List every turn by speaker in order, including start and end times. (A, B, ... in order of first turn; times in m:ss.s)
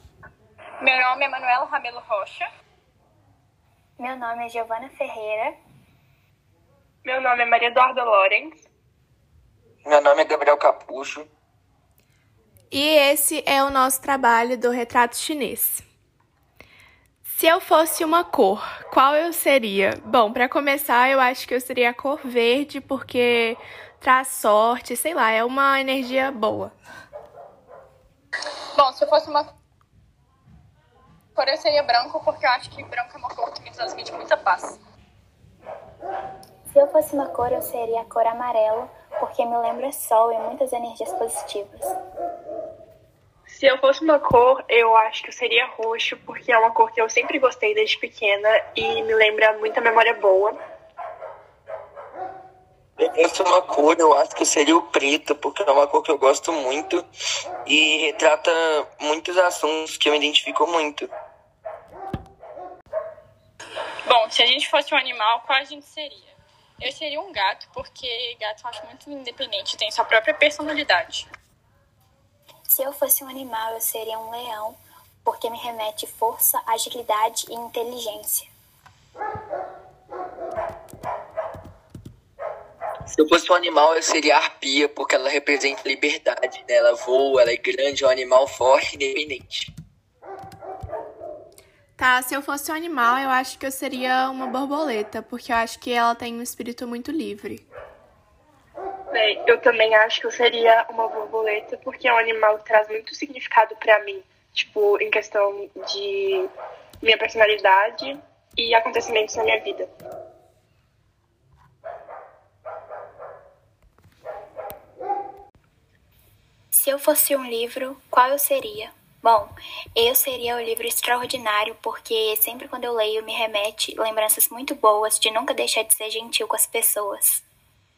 0:00.8-0:02.4 A
0:04.0-0:05.6 B
0:07.0-0:08.7 C
0:09.8-0:11.3 D
0:12.7-0:15.8 E
0:17.3-0:26.7 E
0:28.8-0:29.4 A
0:31.4-0:34.8 A
0:36.7-0:42.0 B
0:43.5-0:50.6 C
0:53.0-0:57.1 D
0:57.7-1:01.1 D
1:04.1-1:11.3 A
1:12.7-1:18.5 B
1:23.1-1:29.7 D
1:32.0-1:37.6 E
1:39.1-1:49.9 C
1:56.7-2:07.4 B